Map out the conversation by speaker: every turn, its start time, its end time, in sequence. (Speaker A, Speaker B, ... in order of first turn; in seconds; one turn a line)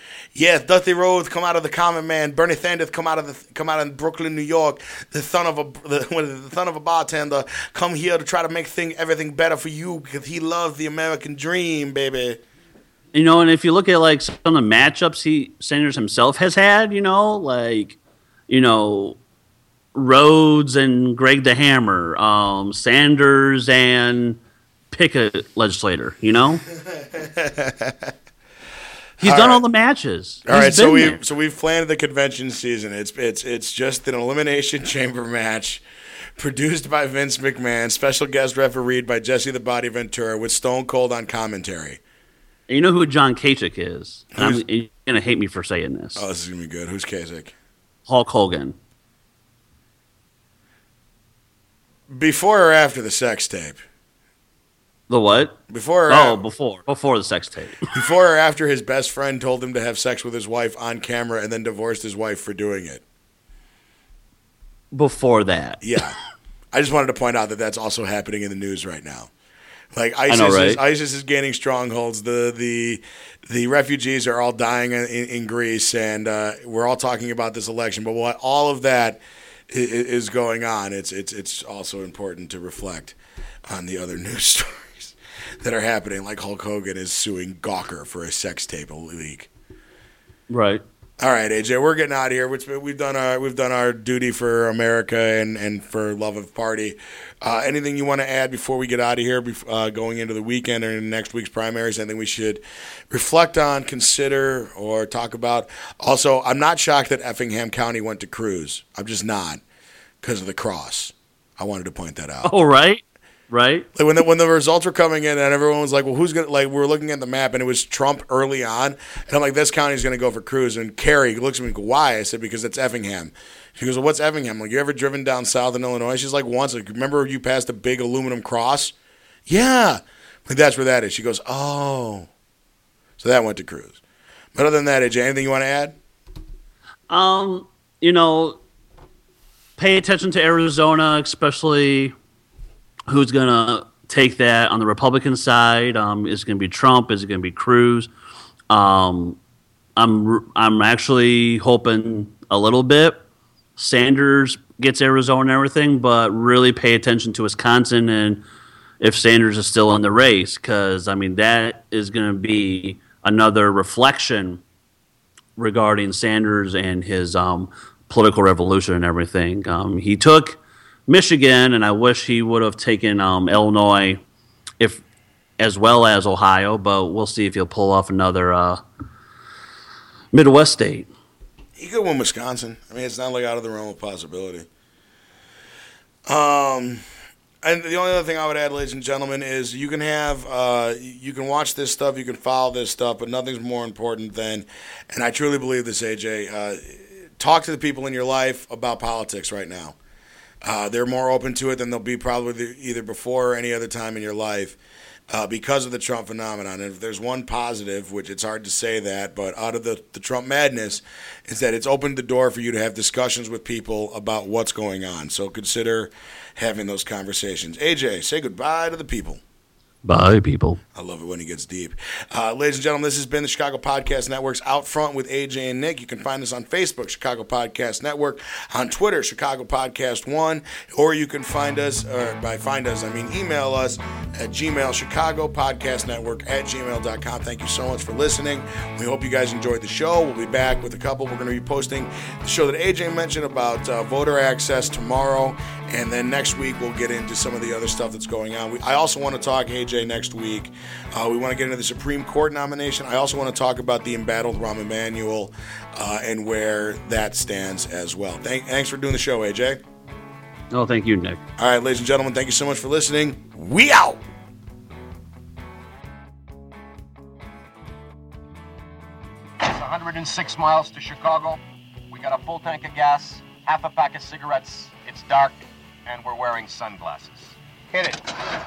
Speaker A: 0.3-12.4
Speaker B: 13.1-18.0
Speaker B: 18.5-19.2
Speaker B: 19.9-24.4
Speaker B: 24.9-26.6
Speaker A: 26.8-28.1
Speaker A: 29.2-29.6
Speaker B: 29.2-31.2
Speaker A: 30.5-35.8
Speaker A: 36.4-42.0
Speaker B: 42.7-46.2
Speaker A: 44.4-44.6
Speaker A: 46.2-47.5
Speaker B: 48.1-48.8
Speaker A: 52.1-53.8
Speaker B: 55.1-55.6
Speaker A: 55.7-56.4
Speaker B: 56.1-57.9
Speaker A: 57.9-63.0
Speaker B: 64.9-65.8
Speaker A: 65.8-66.2
Speaker A: 66.7-69.3
Speaker A: 69.9-83.2
Speaker B: 70.3-70.8
Speaker A: 83.7-89.5
Speaker B: 90.5-90.8
Speaker A: 91.2-109.6
Speaker A: 110.2-112.5
Speaker B: 112.4-113.9
Speaker A: 114.0-128.9
Speaker A: 129.5-132.3
Speaker A: 133.2-134.0
Speaker A: 134.6-136.0
Speaker B: 137.1-138.6
Speaker B: 139.8-142.2
Speaker B: 143.1-148.1
Speaker B: 148.7-149.4
Speaker B: 150.0-153.2
Speaker B: 153.8-158.4
Speaker B: 159.0-164.6
Speaker B: 165.6-174.2
Speaker B: 175.6-178.8
Speaker B: 180.3-181.1
Speaker A: 181.8-184.7
Speaker A: 186.3-187.0
Speaker A: 187.6-200.0
Speaker A: 200.6-204.8
Speaker A: 205.3-219.4
Speaker B: 220.0-220.8
Speaker A: 220.9-259.8
Speaker B: 260.7-261.4
Speaker A: 261.6-264.2
Speaker C: 269.6-278.2